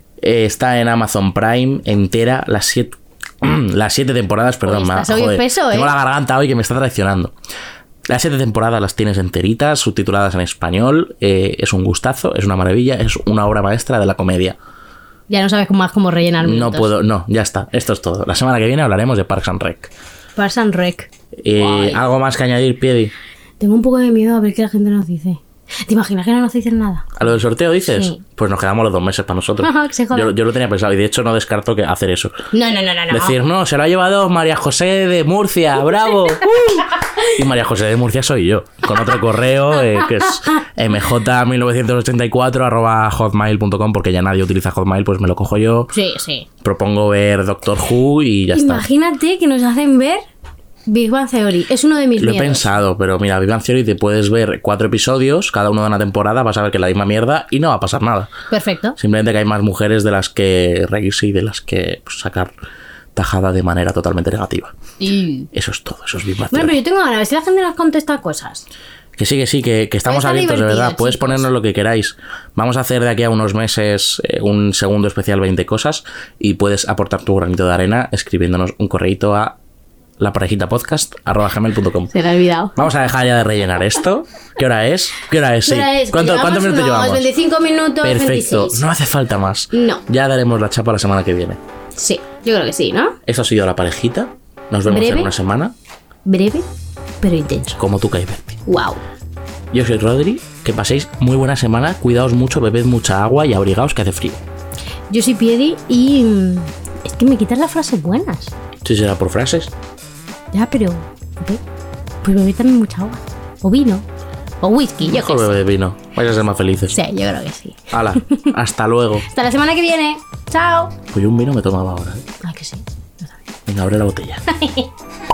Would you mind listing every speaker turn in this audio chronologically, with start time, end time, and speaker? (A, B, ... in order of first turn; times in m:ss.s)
0:00.2-0:07.3 A
0:04.6-0:05.9 B
0:08.1-0:14.6 A
0:15.3-0:16.9 B
0:16.4-0:19.9 A
0:20.4-0:22.0 B
0:21.4-0:23.1 A
0:23.6-0:27.3 B
0:27.2-0:32.5 A
0:27.9-0:28.2 B
0:29.6-0:30.3 B
0:32.5-0:33.4 B
0:33.1-0:45.9 A
0:36.6-0:37.4 B
0:40.0-0:40.5 B
0:45.9-0:46.5 B
0:46.6-0:48.9 A
0:48.5-0:50.2 B
0:50.9-0:52.7 B
0:52.2-0:58.3 A
0:58.5-0:59.0 B
0:59.0-1:02.5 A
1:03.1-1:04.7 A
1:05.0-1:05.5 B
1:05.5-1:06.8 A
1:06.5-1:08.6 B
1:09.2-1:19.6 A
1:10.0-1:11.5 B
1:20.2-1:22.1 A
1:22.1-1:22.8 B
1:22.8-1:27.3 A
1:25.6-1:28.8 B
1:28.0-1:31.6 A
1:29.7-1:30.0 B
1:32.0-1:33.2 B
1:33.3-1:35.7 A
1:34.9-1:35.3 B
1:36.2-1:36.6 B
1:37.2-1:37.8 B
1:37.8-1:38.6 A
1:38.6-1:39.0 B
1:39.7-1:44.4 A
1:45.1-1:48.5 B
1:48.8-1:49.7 A
1:50.5-1:51.6 B
1:52.2-1:54.0 B
1:54.6-1:55.5 B
1:55.0-1:57.0 A
1:56.9-1:58.5 B
1:57.9-1:59.3 A
1:59.3-2:00.9 B
2:01.1-2:02.2 A
2:02.4-2:03.3 B
2:03.7-2:04.4 A
2:04.5-2:04.9 B